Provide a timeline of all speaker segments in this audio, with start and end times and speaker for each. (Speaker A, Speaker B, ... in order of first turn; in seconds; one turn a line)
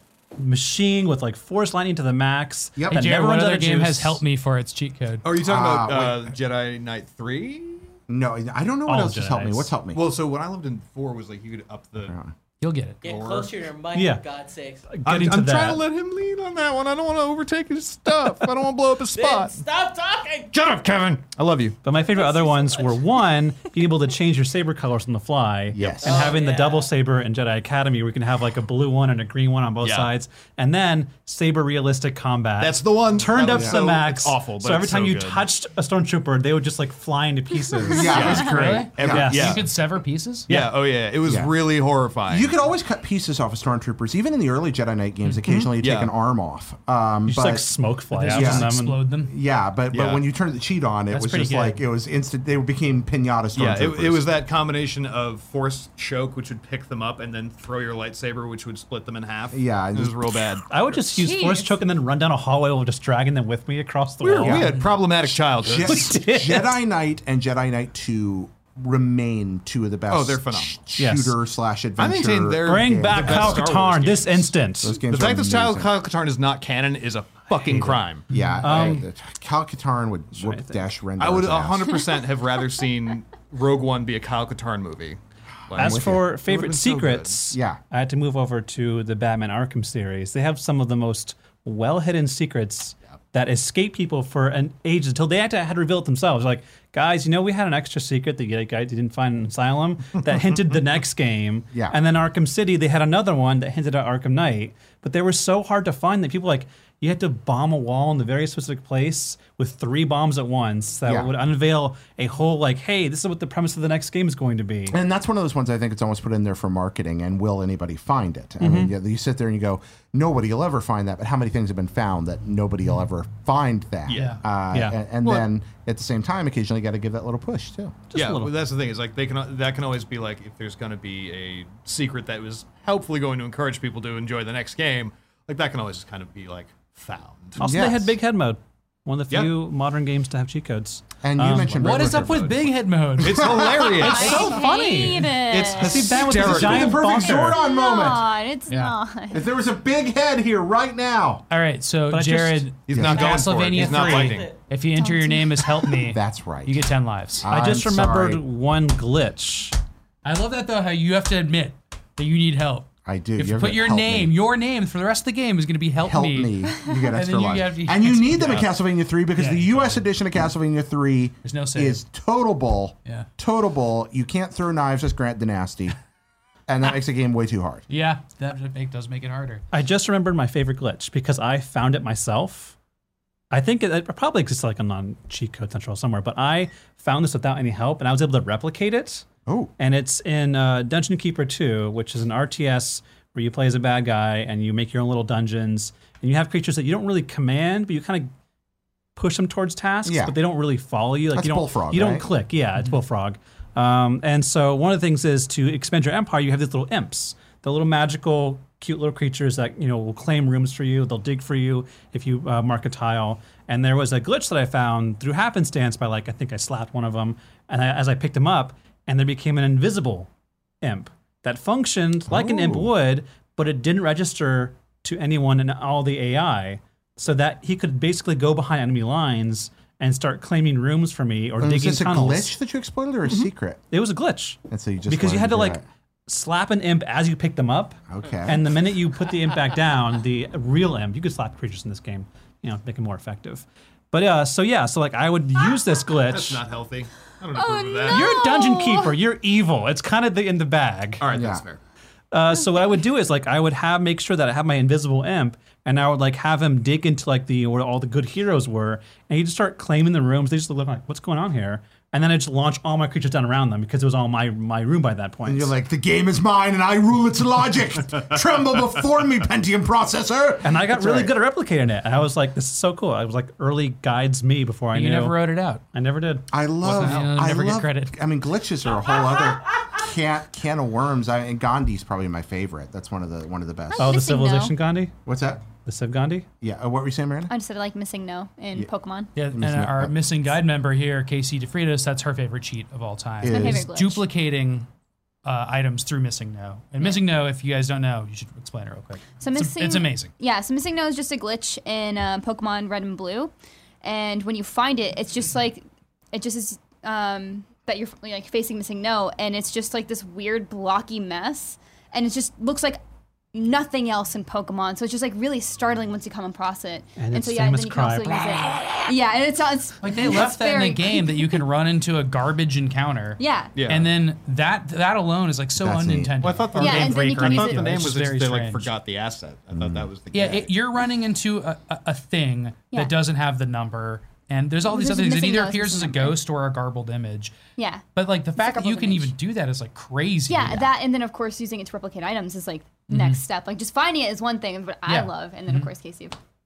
Speaker A: 0.4-4.2
Speaker B: 2.8-3.1
Speaker C: 2.9-5.2
Speaker D: 5.2-7.9
Speaker B: 5.4-6.3
Speaker B: 8.1-10.1
Speaker A: 8.9-9.7
Speaker D: 9.9-12.1
Speaker B: 12.1-12.3
Speaker C: 12.6-13.0
Speaker E: 13.0-14.9
Speaker D: 13.0-13.6
Speaker A: 13.9-14.3
Speaker A: 14.9-15.8
Speaker D: 15.1-19.6
Speaker E: 19.1-20.5
Speaker D: 20.5-21.8
Speaker A: 21.8-38.5
Speaker E: 21.9-23.1
Speaker B: 25.7-26.4
Speaker D: 25.8-26.1
Speaker E: 26.0-26.9
Speaker D: 29.8-30.1
Speaker D: 32.6-35.4
Speaker B: 33.5-33.8
Speaker F: 37.9-38.4
Speaker B: 37.9-39.5
Speaker D: 38.1-39.6
Speaker C: 38.2-40.5
Speaker A: 39.1-39.6
Speaker D: 40.5-42.5
Speaker B: 41.3-41.5
Speaker B: 42.3-47.7
Speaker D: 45.5-46.1
Speaker A: 47.3-49.0
Speaker C: 48.1-49.3
Speaker B: 48.3-48.7
Speaker B: 49.2-54.3
Speaker D: 49.9-50.2
Speaker C: 51.1-51.8
Speaker D: 53.5-60.9
Speaker B: 59.5-60.4
Speaker A: 60.7-64.8
Speaker F: 61.1-61.8
Speaker D: 64.2-66.2
Speaker B: 64.4-64.7
Speaker B: 65.6-73.7
Speaker A: 65.7-66.8
Speaker D: 70.1-70.8
Speaker A: 71.0-71.4
Speaker D: 72.0-74.5
Speaker A: 72.7-75.0
Speaker B: 74.8-75.9
Speaker D: 75.1-78.2
Speaker B: 77.7-81.9
Speaker C: 78.3-78.6
Speaker A: 78.6-79.1
Speaker A: 80.3-80.8
Speaker D: 81.2-85.2
Speaker D: 85.7-87.4
Speaker A: 85.8-115.0
Speaker B: 85.8-86.5
Speaker B: 87.5-87.8
Speaker B: 111.0-111.3
Speaker B: 114.9-128.0
Speaker A: 118.6-118.9
Speaker D: 124.1-124.4
Speaker C: 124.1-124.4
Speaker A: 124.7-125.0
Speaker A: 128.1-128.5
Speaker D: 128.2-137.6
Speaker A: 137.6-142.1
Speaker B: 137.6-138.2
Speaker B: 141.2-142.4
Speaker C: 141.8-143.7
Speaker D: 141.8-142.6
Speaker D: 143.2-144.6
Speaker B: 143.2-144.3
Speaker F: 143.9-146.1
Speaker A: 144.0-147.6
Speaker D: 145.3-147.1
Speaker B: 145.8-148.3
Speaker F: 147.1-149.4
Speaker C: 148.7-148.9
Speaker B: 149.3-151.4
Speaker C: 151.5-157.5
Speaker A: 152.1-152.7
Speaker D: 152.9-154.5
Speaker B: 152.9-153.4
Speaker E: 153.3-154.6
Speaker F: 155.0-155.9
Speaker B: 156.1-156.8
Speaker B: 157.4-158.4
Speaker A: 157.5-159.8
Speaker C: 160.2-168.7
Speaker B: 163.1-164.3
Speaker B: 166.0-176.0
Speaker C: 169.3-170.1
Speaker C: 171.4-172.0
Speaker B: 176.7-177.8
Speaker C: 177.9-179.6
Speaker A: 179.7-182.8
Speaker A: 183.5-189.3
Speaker B: 189.5-189.7
Speaker A: 189.8-198.3
Speaker A: 199.2-220.3
Speaker B: 200.1-200.4
Speaker B: 201.3-202.3
Speaker A: 220.8-232.5
Speaker B: 222.3-222.9
Speaker B: 231.6-233.8
Speaker A: 233.9-246.6
Speaker B: 234.7-235.8
Speaker B: 238.1-238.7
Speaker D: 246.3-248.3
Speaker F: 247.5-249.2
Speaker A: 248.1-251.2
Speaker D: 251.2-251.8
Speaker B: 251.3-251.6
Speaker A: 252.3-265.7
Speaker B: 265.5-271.3
Speaker A: 270.6-275.4
Speaker C: 274.9-275.8
Speaker A: 275.9-276.4
Speaker B: 276.5-284.2
Speaker D: 276.9-277.3
Speaker C: 276.9-278.2
Speaker F: 283.9-284.8
Speaker A: 284.0-285.1
Speaker B: 285.3-285.6
Speaker A: 285.9-286.5
Speaker B: 286.6-287.5
Speaker F: 287.5-289.3
Speaker C: 289.4-294.9
Speaker B: 289.5-290.1
Speaker B: 293.4-293.9
Speaker F: 293.5-294.2
Speaker C: 295.4-300.3
Speaker F: 299.4-313.0
Speaker F: 313.5-321.6
Speaker A: 317.2-319.0
Speaker C: 320.0-328.9
Speaker F: 323.4-323.7
Speaker D: 323.8-324.1
Speaker B: 325.8-326.4
Speaker D: 326.4-330.7
Speaker F: 326.8-327.9
Speaker B: 329.7-330.1
Speaker C: 330.3-337.6
Speaker F: 334.9-336.4
Speaker F: 337.8-338.1
Speaker C: 338.1-340.9
Speaker F: 338.6-339.3
Speaker F: 340.5-346.4
Speaker C: 343.1-343.4
Speaker C: 345.1-345.9